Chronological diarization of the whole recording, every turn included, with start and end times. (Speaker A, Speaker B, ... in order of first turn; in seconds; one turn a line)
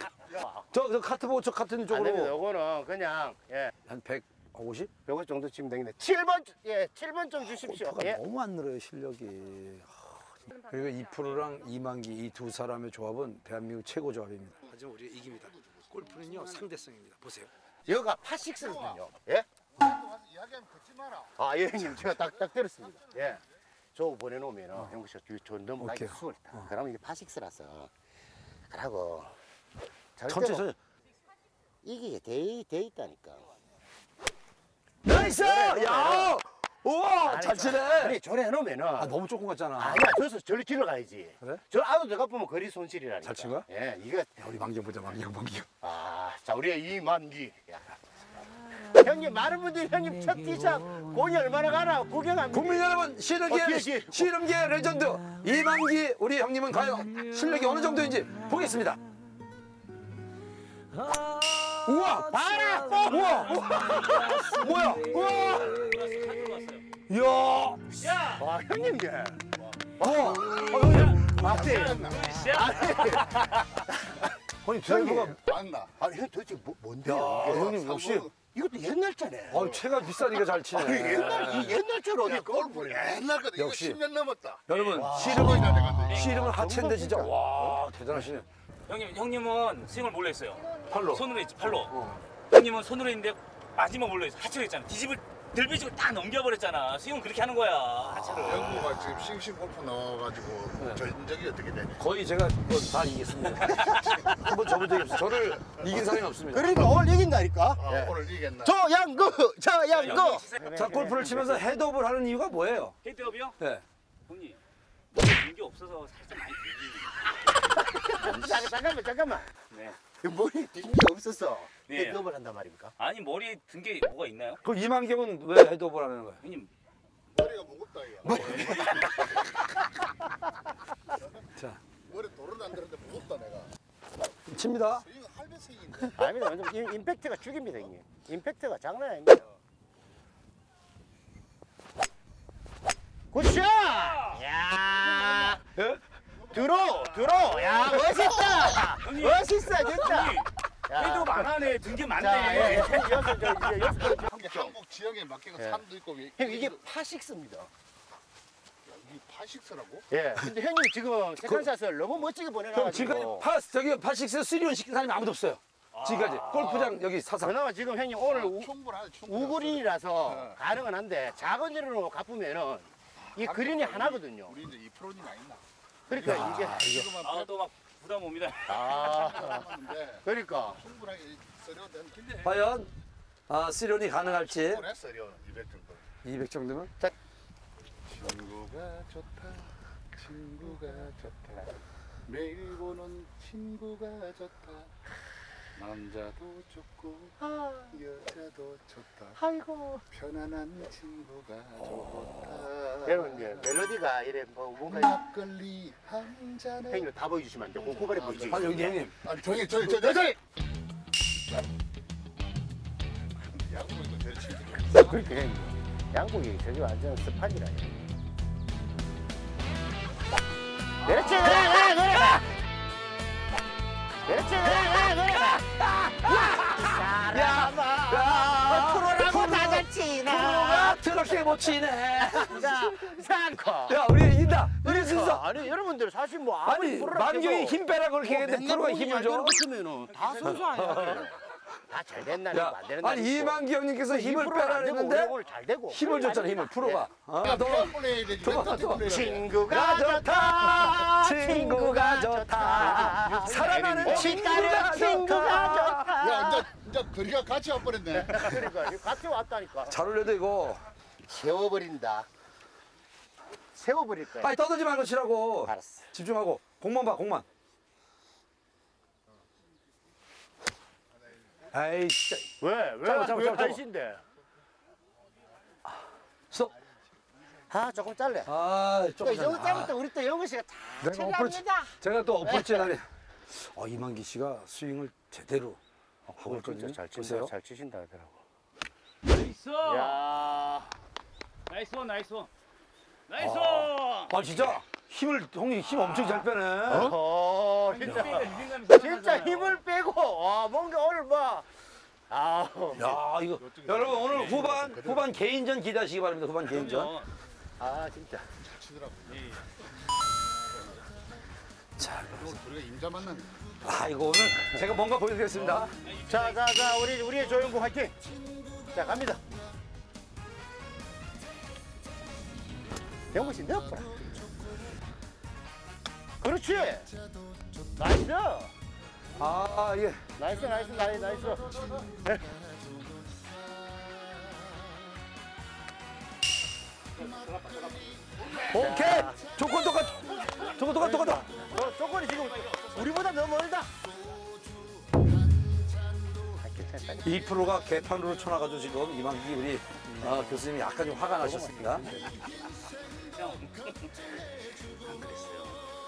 Speaker A: 0.2-0.7
Speaker B: 0.7-2.3
Speaker A: 1.9-3.7
Speaker B: 3.9-4.9
Speaker A: 5.0-8.2
Speaker B: 7.5-17.5
Speaker C: 15.5-16.6
Speaker A: 17.9-19.5
Speaker C: 19.9-21.3
Speaker A: 21.4-23.4
Speaker A: 23.9-27.9
Speaker B: 25.8-26.6
Speaker A: 28.7-29.4
Speaker A: 30.1-30.7
Speaker B: 30.3-30.8
Speaker A: 31.8-33.5
Speaker B: 35.0-38.2
Speaker A: 35.1-36.4
Speaker A: 37.2-39.1
Speaker B: 39.0-40.1
Speaker A: 39.8-44.4
Speaker B: 43.2-43.6
Speaker B: 44.4-45.7
Speaker A: 45.8-47.9
Speaker A: 48.8-52.9
Speaker B: 52.5-59.0
Speaker A: 53.4-54.3
Speaker B: 61.0-66.0
Speaker A: 62.0-65.8
Speaker D: 63.1-66.9
Speaker B: 67.1-67.8
Speaker D: 67.9-68.4
Speaker A: 68.4-69.4
Speaker C: 69.6-72.3
Speaker B: 70.0-71.5
Speaker A: 70.0-74.3
Speaker D: 70.8-71.3
Speaker D: 71.9-73.3
Speaker B: 74.6-75.4
Speaker A: 74.9-75.4
Speaker C: 75.4-75.9
Speaker A: 76.0-77.8
Speaker B: 77.0-78.3
Speaker C: 77.3-78.3
Speaker A: 78.4-79.8
Speaker B: 79.5-81.8
Speaker A: 80.7-83.2
Speaker C: 82.2-86.2
Speaker B: 83.5-84.0
Speaker B: 84.7-88.5
Speaker D: 84.7-85.2
Speaker A: 84.9-88.3
Speaker D: 86.1-86.4
Speaker D: 88.9-92.0
Speaker B: 90.8-91.2
Speaker B: 91.9-92.2
Speaker D: 92.5-99.0
Speaker C: 98.4-102.0
Speaker B: 102.0-106.8
Speaker D: 103.7-104.2
Speaker A: 106.5-111.6
Speaker C: 107.8-108.8
Speaker D: 109.9-110.8
Speaker B: 110.8-112.9
Speaker D: 113.0-113.6
Speaker D: 114.3-114.6
Speaker D: 115.1-117.6
Speaker A: 117.8-119.5
Speaker B: 118.2-118.7
Speaker D: 119.7-120.0
Speaker A: 120.2-122.9
Speaker D: 121.9-122.2
Speaker D: 123.0-124.6
Speaker B: 124.6-126.4
Speaker D: 126.4-126.7
Speaker C: 127.3-129.2
Speaker A: 128.2-129.5
Speaker D: 128.3-129.1
Speaker B: 131.5-131.8
Speaker C: 132.0-133.7
Speaker B: 134.5-135.1
Speaker C: 135.0-136.2
Speaker A: 136.1-139.5
Speaker A: 143.3-145.6
Speaker B: 145.8-146.0
Speaker A: 146.5-151.5
Speaker C: 147.5-148.6
Speaker D: 149.0-153.5
Speaker A: 152.1-154.8
Speaker C: 152.4-153.0
Speaker C: 154.0-156.8
Speaker A: 155.6-155.8
Speaker A: 156.4-157.7
Speaker C: 158.9-160.1
Speaker A: 160.1-163.5
Speaker B: 162.7-167.5
Speaker D: 166.0-166.6
Speaker C: 166.5-167.0
Speaker A: 167.4-168.7
Speaker C: 168.2-170.6
Speaker A: 169.2-174.6
Speaker C: 173.2-177.5
Speaker A: 176.1-176.8
Speaker B: 176.2-177.1
Speaker D: 177.2-178.8
Speaker A: 178.7-180.8
Speaker C: 178.7-182.5
Speaker B: 182.4-182.9
Speaker B: 183.5-184.8
Speaker C: 184.4-186.1
Speaker B: 186.2-186.9
Speaker C: 188.0-191.6
Speaker C: 192.2-194.9
Speaker C: 195.8-197.4
Speaker A: 197.4-198.0
Speaker C: 197.9-199.4
Speaker A: 199.4-200.0
Speaker C: 200.1-203.8
Speaker B: 201.9-202.4
Speaker A: 203.0-205.2
Speaker C: 204.9-207.1
Speaker A: 206.9-208.9
Speaker C: 207.8-210.4
Speaker B: 208.5-209.1
Speaker A: 210.0-210.3
Speaker C: 213.5-215.2
Speaker A: 214.9-217.9
Speaker A: 221.0-222.5
Speaker B: 221.2-222.4
Speaker A: 224.2-225.6
Speaker B: 224.5-232.9
Speaker A: 226.2-231.4
Speaker A: 232.2-234.0
Speaker B: 233.9-235.4
Speaker A: 234.8-247.1
Speaker B: 236.6-239.6
Speaker D: 240.3-240.6
Speaker B: 240.4-241.3
Speaker B: 242.5-245.3
Speaker B: 245.9-249.1
Speaker C: 247.4-249.5
Speaker A: 249.0-256.7
Speaker B: 249.7-256.2
Speaker C: 256.2-258.7
Speaker A: 258.1-260.0
Speaker B: 259.9-260.9
Speaker A: 261.2-262.3
Speaker A: 263.8-264.5
Speaker B: 264.4-267.5
Speaker A: 265.6-266.1
Speaker B: 271.7-272.5
Speaker A: 272.6-274.2
Speaker B: 273.0-273.8
Speaker A: 277.7-278.5
Speaker B: 278.5-279.9
Speaker A: 279.2-282.9
Speaker B: 281.0-285.8
Speaker A: 286.3-288.4
Speaker B: 286.4-287.5
Speaker D: 289.2-290.2
Speaker A: 289.9-290.9
Speaker D: 291.7-292.5
Speaker D: 293.3-294.4
Speaker B: 293.4-297.1
Speaker D: 296.0-296.4
Speaker A: 296.9-301.7
Speaker D: 297.9-299.8
Speaker A: 302.3-303.1
Speaker B: 302.9-307.1
Speaker C: 303.0-305.4
Speaker D: 304.3-304.7
Speaker D: 306.6-307.3
Speaker A: 307.8-308.5
Speaker C: 308.7-309.4
Speaker D: 309.3-309.6
Speaker B: 312.0-312.6
Speaker C: 312.4-313.6
Speaker B: 313.8-315.9
Speaker D: 316.0-316.6
Speaker A: 316.3-318.1
Speaker A: 318.9-319.4
Speaker A: 323.3-324.4
Speaker A: 326.4-327.1
Speaker A: 328.0-328.7
Speaker B: 329.4-330.2
Speaker A: 330.4-332.6
Speaker C: 331.7-332.0
Speaker C: 332.8-333.1
Speaker D: 337.2-338.7
Speaker C: 337.5-338.2
Speaker B: 338.6-341.6
Speaker A: 338.7-339.4
Speaker A: 341.0-343.9
Speaker D: 342.5-343.0
Speaker A: 346.5-347.5
Speaker B: 347.2-352.4
Speaker A: 350.2-350.6
Speaker A: 351.4-352.4
Speaker D: 353.1-355.9